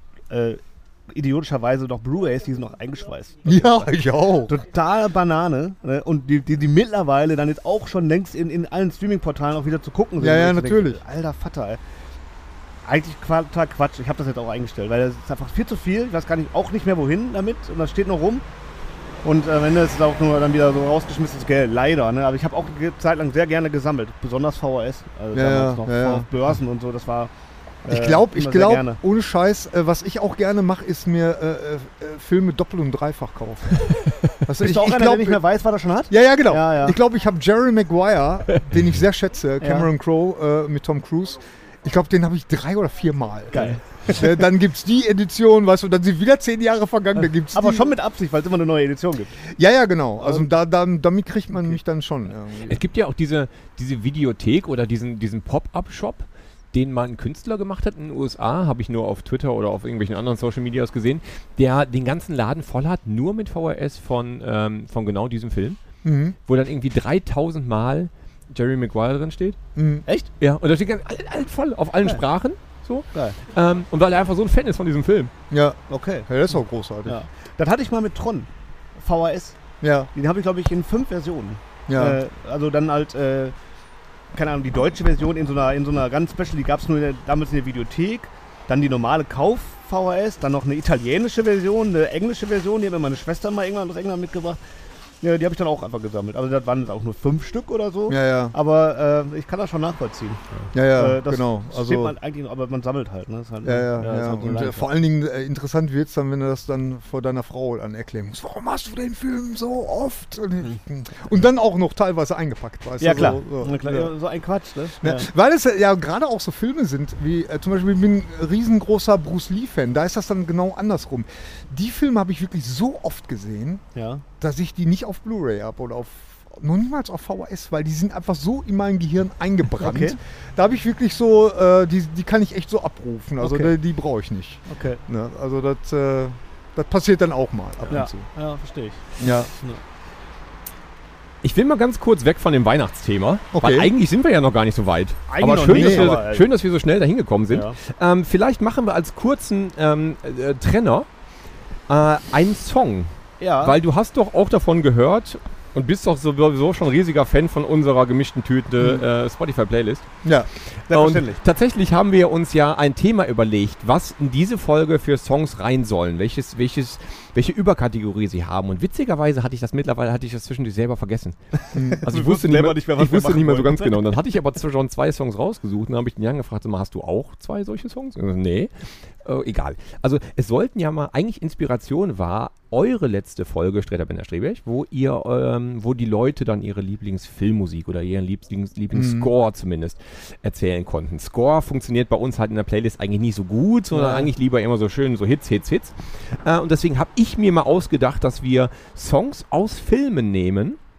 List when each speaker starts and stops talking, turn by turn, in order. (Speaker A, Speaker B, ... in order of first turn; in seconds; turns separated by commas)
Speaker A: 0.3-3.9, Speaker B: 3.5-4.5, Speaker A: 4.5-11.8, Speaker B: 10.2-11.0, Speaker A: 12.8-18.4, Speaker A: 19.2-27.3, Speaker B: 25.3-26.3, Speaker A: 27.9-29.0, Speaker B: 27.9-35.4, Speaker A: 34.6-37.0, Speaker B: 36.1-47.9, Speaker A: 39.6-39.9, Speaker A: 43.5-44.3, Speaker A: 47.5-49.4, Speaker B: 49.6-52.8, Speaker A: 50.2-50.5, Speaker C: 52.7-65.8, Speaker B: 66.0-66.4, Speaker C: 66.5-69.6, Speaker B: 69.8-70.0, Speaker C: 70.4-75.3, Speaker B: 75.5-77.2, Speaker A: 75.9-76.3, Speaker A: 77.1-79.6, Speaker B: 79.8-80.1, Speaker A: 80.1-83.5, Speaker B: 81.9-82.2, Speaker A: 84.3-94.6, Speaker A: 95.2-104.9, Speaker B: 98.1-98.5, Speaker B: 100.7-102.1, Speaker B: 103.6-114.1, Speaker A: 113.0-115.3, Speaker B: 115.0-123.8, Speaker A: 124.0-124.2, Speaker B: 124.4-138.3, Speaker A: 129.8-130.2, Speaker A: 133.4-133.8, Speaker A: 134.7-135.0, Speaker A: 137.9-139.8, Speaker B: 139.2-139.5, Speaker C: 141.4-151.1, Speaker B: 143.5-143.9, Speaker A: 145.3-146.5, Speaker B: 145.7-146.2, Speaker A: 147.5-147.8, Speaker C: 151.9-160.1, Speaker A: 153.4-153.8, Speaker B: 160.2-160.5, Speaker A: 160.9-161.4, Speaker C: 160.9-171.4, Speaker B: 171.7-172.0, Speaker A: 171.9-174.0, Speaker C: 172.0-200.8, Speaker B: 188.9-189.3, Speaker A: 193.9-194.2